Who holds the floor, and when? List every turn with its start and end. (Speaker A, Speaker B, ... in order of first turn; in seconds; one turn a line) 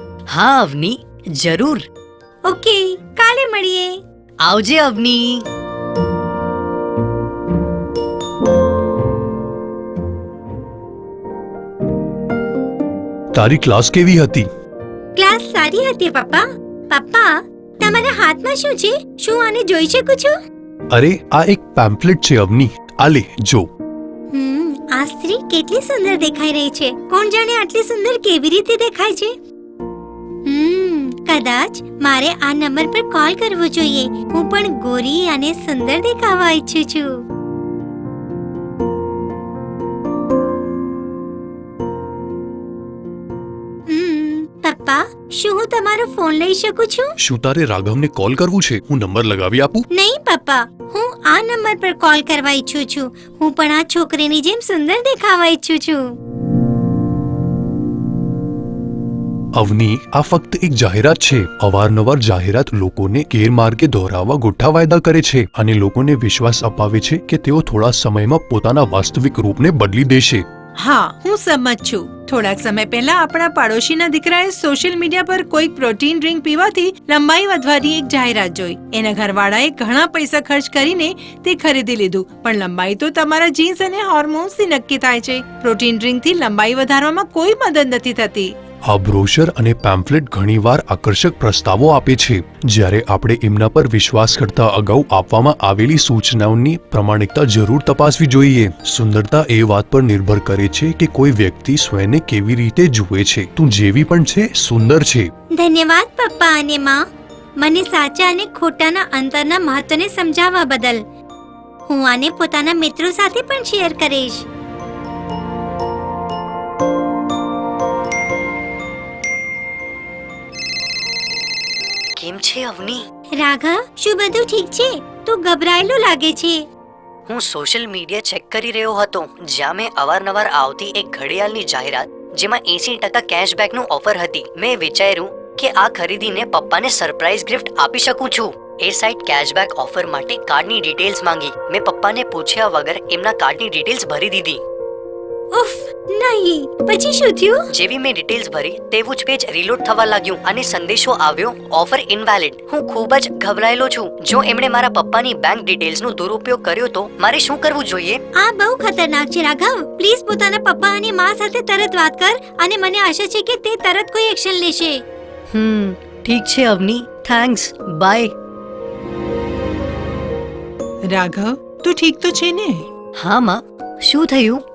Speaker A: 0.3-1.9
Speaker B: 2.5-3.9
Speaker A: 4.4-5.5
Speaker C: 13.3-14.5
Speaker B: 15.2-20.3
Speaker C: 20.9-23.6
Speaker B: 24.3-29.3
Speaker B: 30.5-37.1
Speaker B: 43.9-47.1
Speaker C: 47.2-49.9
Speaker B: 50.0-56.0
Speaker C: 59.5-70.5
Speaker D: 70.8-88.5
Speaker C: 88.9-105.3
Speaker B: 105.6-107.0
Speaker B: 107.6-111.0
Speaker B: 111.9-114.5
Speaker A: 122.2-123.0
Speaker B: 123.4-126.6
Speaker A: 127.3-144.6
Speaker B: 145.5-147.7
Speaker A: 147.7-158.2
Speaker B: 158.4-165.0
Speaker A: 165.5-168.3
Speaker D: 171.1-172.9
Speaker A: 173.2-174.6